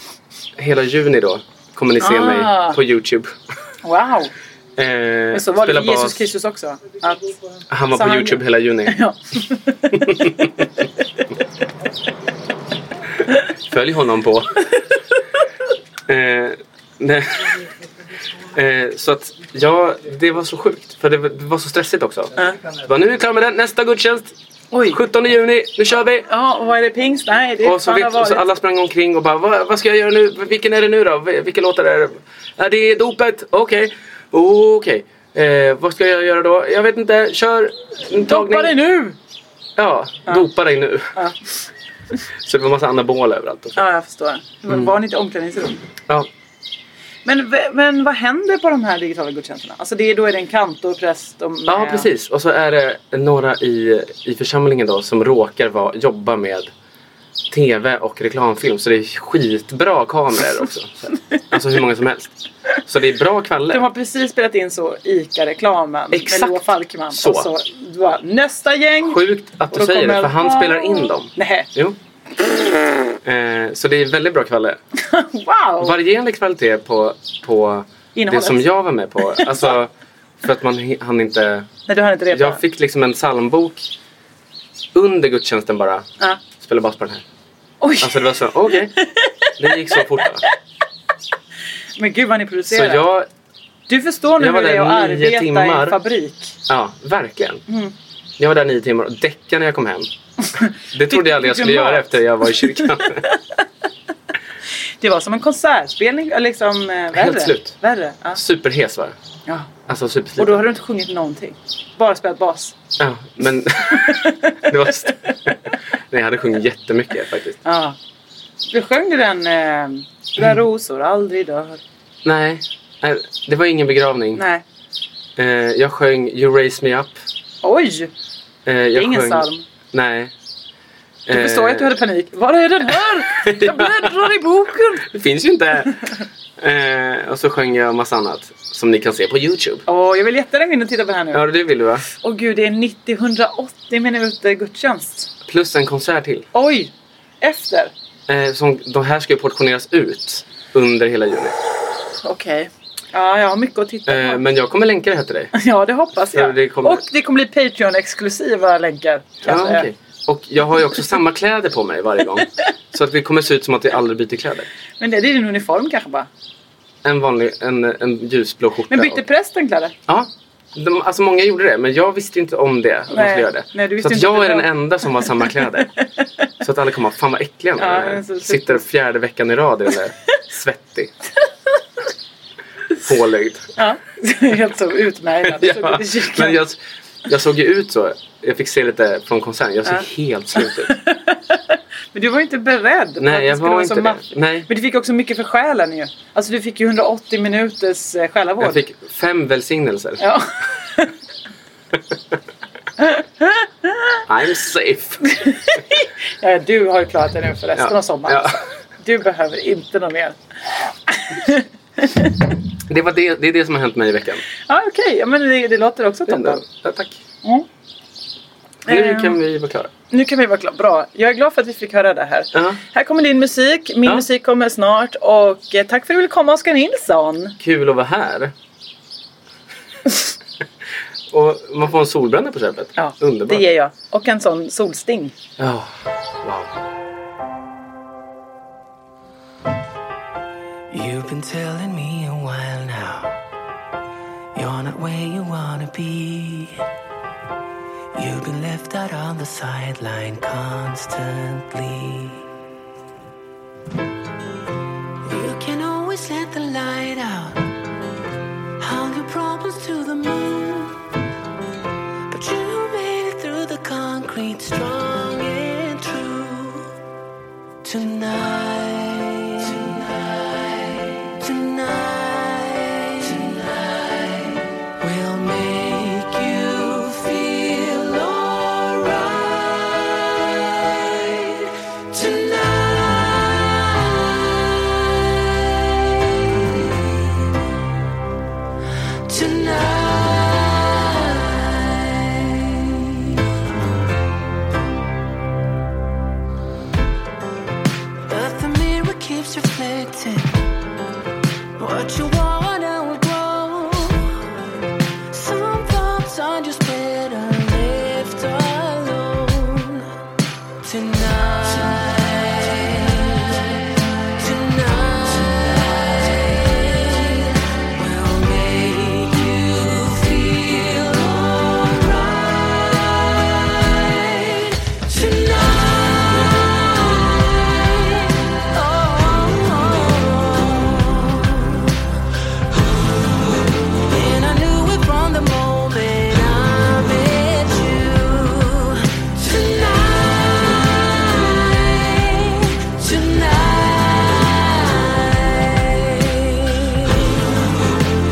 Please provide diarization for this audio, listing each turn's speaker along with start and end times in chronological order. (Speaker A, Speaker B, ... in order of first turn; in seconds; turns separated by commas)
Speaker A: 0.6-3.3, Speaker B: 2.0-2.8, Speaker B: 3.8-4.3, Speaker A: 4.8-6.3, Speaker B: 5.3-7.3, Speaker A: 7.7-9.0, Speaker B: 7.9-10.2, Speaker A: 13.7-14.8, Speaker A: 16.1-17.6, Speaker A: 18.5-24.3, Speaker B: 24.7-25.0, Speaker A: 24.9-26.2, Speaker B: 26.2-28.4, Speaker A: 27.6-38.8, Speaker B: 38.2-39.1, Speaker A: 39.8-41.1, Speaker A: 42.4-43.8, Speaker B: 43.8-45.8, Speaker B: 47.2-52.1, Speaker A: 51.7-56.7, Speaker A: 57.5-63.9, Speaker B: 63.7-69.2, Speaker A: 66.1-67.5, Speaker A: 69.0-72.0, Speaker B: 69.7-71.7, Speaker A: 73.2-74.8, Speaker B: 75.0-75.9, Speaker A: 75.8-79.9, Speaker B: 78.1-78.7, Speaker B: 79.4-79.7, Speaker A: 80.4-81.7, Speaker B: 81.9-82.6, Speaker A: 82.3-83.9, Speaker A: 84.9-87.2, Speaker B: 87.8-90.0, Speaker A: 88.0-89.0, Speaker A: 89.6-90.4, Speaker B: 92.0-93.0, Speaker A: 92.7-93.3, Speaker B: 93.9-96.5, Speaker A: 94.4-96.0, Speaker A: 96.7-97.6, Speaker A: 98.4-100.1, Speaker B: 100.4-103.2, Speaker A: 100.9-103.2, Speaker B: 105.0-108.4, Speaker A: 107.1-107.7, Speaker A: 108.3-109.1, Speaker A: 109.9-110.7, Speaker B: 110.4-112.7, Speaker A: 113.0-115.6, Speaker B: 113.9-114.9, Speaker A: 116.1-117.6, Speaker B: 117.6-118.0, Speaker B: 118.7-121.8, Speaker A: 122.2-124.4, Speaker B: 124.3-124.6, Speaker A: 125.4-127.1, Speaker B: 127.6-128.1, Speaker A: 128.7-130.3, Speaker B: 128.9-129.6, Speaker A: 131.3-131.9, Speaker B: 131.3-135.1, Speaker A: 133.3-134.1, Speaker A: 135.0-139.8, Speaker B: 139.9-141.4, Speaker A: 141.3-142.0, Speaker B: 142.1-145.3, Speaker A: 145.4-146.4, Speaker B: 146.5-147.9, Speaker A: 148.3-151.6, Speaker B: 152.2-154.4, Speaker A: 154.1-155.5, Speaker B: 155.5-159.9, Speaker A: 156.3-157.0, Speaker A: 159.4-164.7, Speaker B: 165.0-166.3, Speaker A: 167.0-169.2, Speaker B: 168.9-169.9, Speaker A: 170.1-175.9, Speaker B: 173.1-176.0, Speaker A: 176.6-181.1, Speaker B: 177.8-178.8, Speaker A: 183.0-183.7, Speaker B: 183.8-186.6, Speaker A: 185.4-190.9, Speaker B: 190.6-198.8, Speaker A: 193.2-194.7, Speaker A: 198.6-200.2, Speaker B: 200.2-201.1, Speaker B: 203.0-204.2, Speaker A: 204.3-205.3, Speaker B: 205.2-208.5, Speaker A: 207.8-208.6, Speaker B: 209.0-210.4, Speaker B: 211.1-212.3, Speaker A: 212.9-214.4, Speaker B: 214.7-216.6, Speaker A: 216.3-217.2, Speaker B: 218.9-219.4, Speaker A: 218.9-219.9, Speaker B: 220.1-227.6, Speaker A: 222.5-222.8, Speaker A: 227.6-228.5, Speaker A: 231.3-233.6, Speaker B: 233.0-235.3, Speaker A: 235.6-235.9, Speaker A: 236.4-236.7, Speaker C: 240.9-243.3, Speaker C: 244.5-246.8, Speaker C: 248.1-252.4, Speaker C: 255.3-257.6, Speaker C: 258.8-261.0, Speaker C: 262.3-266.9, Speaker C: 267.8-280.3, Speaker C: 280.9-284.4, Speaker C: 289.3-293.1, Speaker C: 298.3-300.6, Speaker C: 301.8-304.4, Speaker C: 305.3-310.1, Speaker C: 310.8-313.6, Speaker C: 314.4-331.8, Speaker C: 334.0-347.4